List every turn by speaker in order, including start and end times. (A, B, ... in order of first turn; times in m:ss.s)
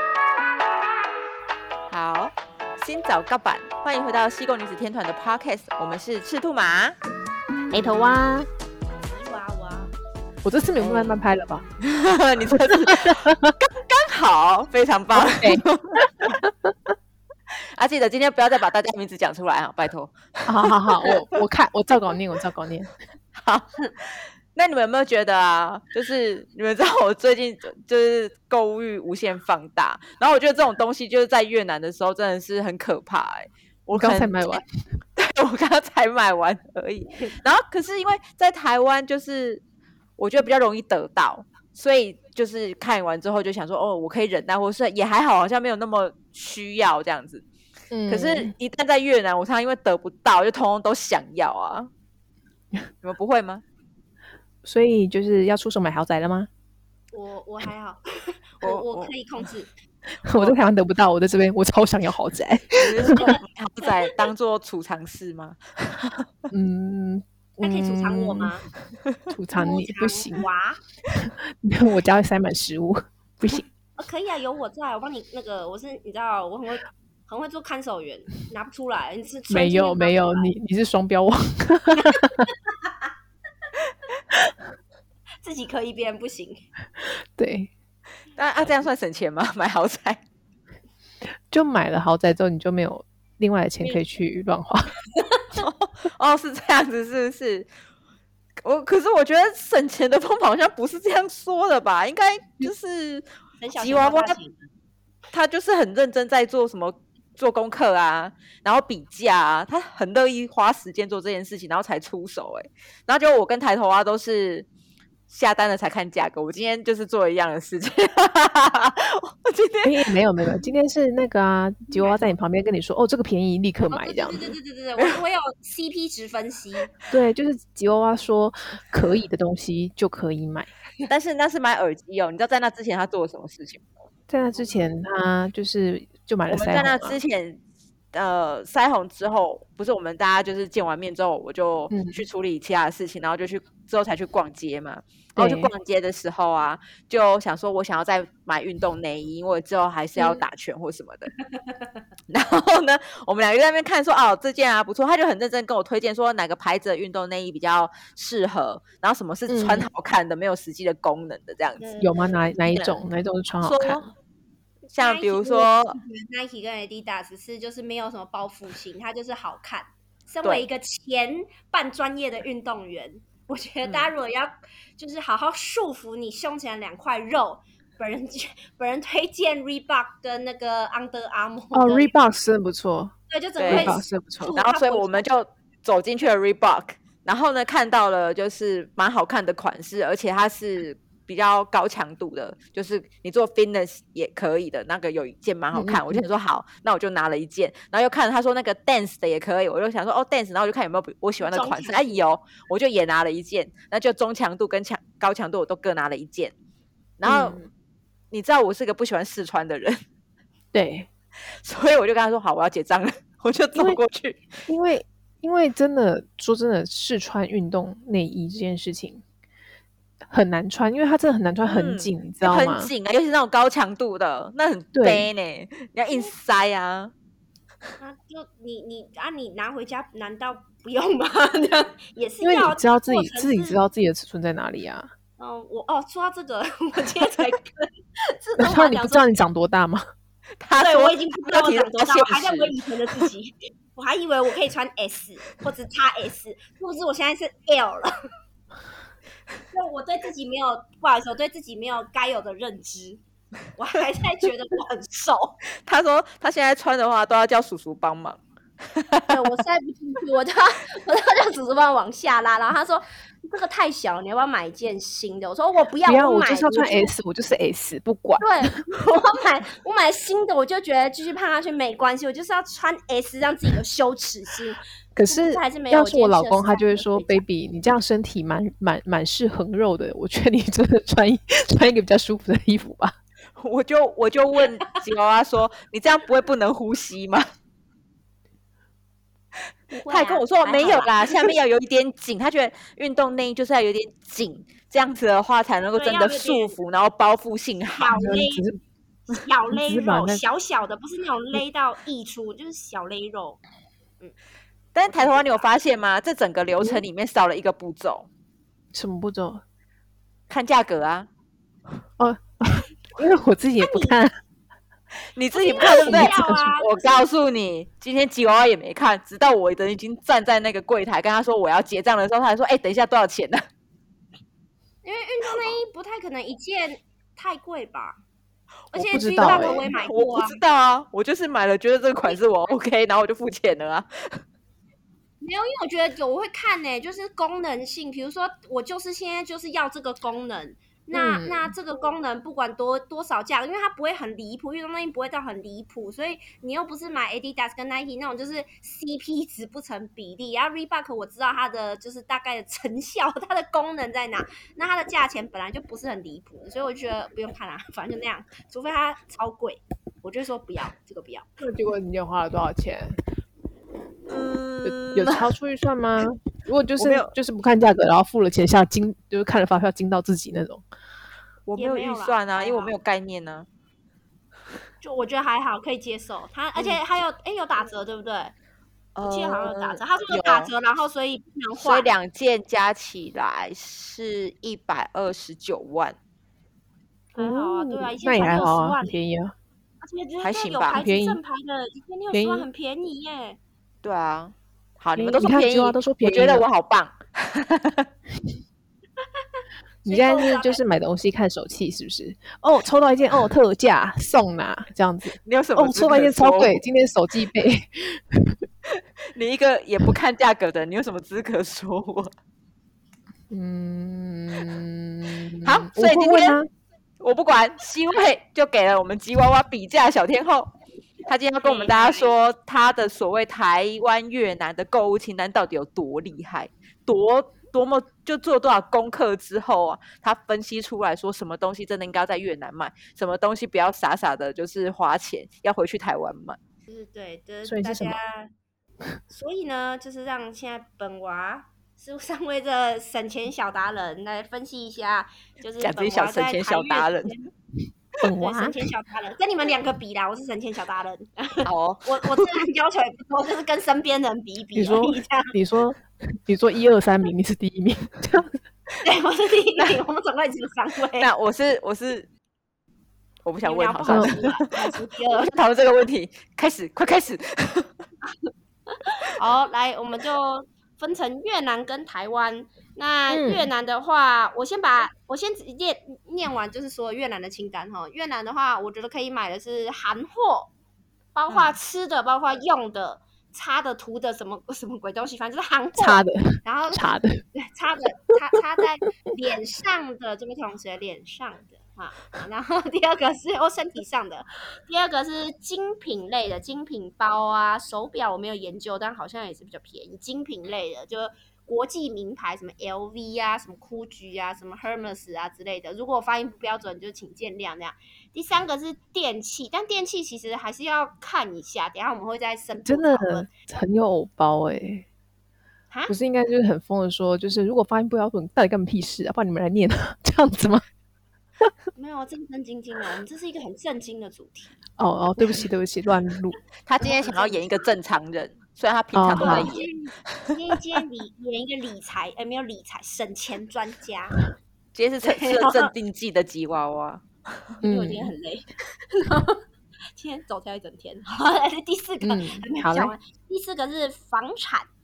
0:01.9-0:07.0 A
0:07.7-0:08.5 B
0:09.0-0:09.9 C
0:10.4-0:11.6 B
0:10.8-0:11.2 A
0:11.8-0:16.3 A
0:12.5-0:13.5 B
0:15.1-0:16.9 B
0:17.5-0:21.2 A
0:20.5-0:22.9 B
0:23.3-0:34.6 A
0:33.9-0:34.6 B
0:35.2-0:39.6 A
0:40.2-0:47.4 A
0:47.9-0:48.5 B
0:48.1-0:51.9 A
0:53.0-0:53.6 A
0:54.6-0:56.5 B
0:57.1-0:59.7 C
0:58.6-0:59.1 A
1:00.2-1:03.3 B
1:02.8-1:06.2 A
1:03.0-1:04.1 C
1:06.5-1:08.5 B
1:07.6-1:08.6 C
1:09.3-1:10.5 B
1:09.5-1:10.8 C
1:11.1-1:13.6 B
1:14.0-1:20.5 C
1:19.5-1:22.5 B
1:21.9-1:23.1 C
1:25.4-1:26.6 C
1:27.0-1:27.7 B
1:28.4-1:30.2 A
1:31.5-1:34.9 B
1:35.1-1:35.4 C
1:35.5-1:37.7 A
1:38.6-1:44.4 A
1:43.6-1:44.6 C
1:45.3-1:54.7 A
1:55.3-2:00.1 A
1:59.8-2:04.5 B
2:03.9-2:06.9 C
2:07.1-2:10.7 B
2:11.1-2:13.9 A
2:14.3-2:17.2 B
2:16.5-2:17.6 A
2:18.1-2:31.3 A
2:21.9-2:22.2 B
2:25.4-2:25.7 B
2:31.6-2:31.9 C
2:32.3-2:41.9 A
2:39.5-2:39.9 B
2:41.8-2:42.4 C
2:42.0-2:44.1 B
2:42.7-2:43.0 A
2:43.6-2:44.1 A
2:44.9-2:46.0 A
2:44.9-3:02.1 C
2:53.8-2:54.1 A
3:01.7-3:03.1 B
3:03.3-3:05.2 C
3:03.6-3:04.0 A
3:03.7-3:04.5 B
3:04.6-3:26.5 A
3:15.7-3:16.2 B
3:21.4-3:22.2 C
3:27.2-3:27.6 A
3:27.2-3:27.6 B
3:28.3-3:30.0 A
3:30.7-3:31.1 B
3:31.5-3:34.6 A
3:33.7-3:34.0 B
3:34.7-3:39.2 B
3:40.3-3:42.9 B
3:41.6-3:47.1 A
3:44.9-3:45.3 B
3:48.0-3:53.8 C
3:52.4-3:55.1 B
3:55.4-3:59.3 C
3:58.6-4:00.0 B
4:00.6-4:03.3 A
4:00.8-4:08.1 C
4:09.7-4:13.2 C
4:13.8-4:15.6 C
4:15.8-4:18.4 A
4:18.9-4:19.4 A
4:19.3-4:27.1 C
4:26.0-4:28.8 B
4:28.4-4:37.4 C
4:35.1-4:43.1 B
4:43.6-4:47.5 A
4:49.9-4:51.2 C
4:50.0-4:58.1 A
4:56.0-4:56.8 C
4:57.9-4:58.6 C
4:58.1-4:58.8 B
4:59.3-5:03.6 C
4:59.7-5:00.4 B
5:04.9-5:08.3 A
5:05.0-5:05.6 C
5:08.9-5:09.6 B
5:10.5-5:11.3 A
5:12.2-5:14.3 B
5:13.8-5:14.2 C
5:15.3-5:23.6 A
5:15.5-5:17.2 C
5:15.8-5:16.7 B
5:25.0-5:28.2 C
5:28.9-5:30.6 C
5:29.0-5:29.9 B
5:29.4-5:34.4 A
5:35.4-6:01.5 C
5:41.1-5:41.7 B
6:01.6-6:03.1 B
6:04.3-6:05.5 A
6:04.8-6:10.8 B
6:07.0-6:07.3 A
6:11.6-6:13.7 A
6:11.8-6:12.9 C
6:15.0-6:18.5 C
6:19.2-6:20.7 A
6:19.2-6:22.1 C
6:21.8-6:26.2 A
6:27.3-6:29.2 C
6:27.3-6:29.5 B
6:30.0-6:33.6 C
6:30.4-6:31.0 A
6:30.9-6:31.4 B
6:32.3-6:32.7 B
6:34.0-6:38.1 A
6:35.2-6:36.7 B
6:40.0-6:48.6 B
6:40.0-6:40.8 C
6:45.4-6:46.8 A
6:48.9-6:52.3 A
6:53.5-6:56.7 B
6:55.6-6:56.6 A
6:57.2-7:00.7 A
7:01.3-7:16.6 A
7:01.6-7:02.3 C
7:16.9-7:18.5 C
7:17.6-7:18.2 B
7:19.3-7:27.5 C
7:25.8-7:27.3 A
7:28.2-7:28.8 B
7:28.2-7:35.6 C
7:31.6-7:32.6 A
7:34.8-7:38.6 B
7:39.0-7:41.3 C
7:41.2-7:42.3 A
7:43.4-7:47.9 A
7:43.6-7:45.5 C
7:44.1-7:44.3 B
7:48.4-8:00.7 C
7:53.3-7:53.7 B
8:01.3-8:33.5 C
8:01.5-8:01.8 A
8:05.9-8:07.4 B
8:32.8-8:35.0 B
8:36.1-8:40.8 B
8:42.0-8:44.8 C
8:45.0-8:46.6 B
8:46.8-8:50.5 A
8:47.0-8:47.8 C
8:49.1-8:49.8 B
8:49.4-8:54.4 C
8:54.9-8:57.7 A
8:55.2-8:55.9 C
8:57.8-8:58.3 B
8:57.8-8:59.6 C
9:00.2-9:04.9 C
9:02.2-9:03.1 B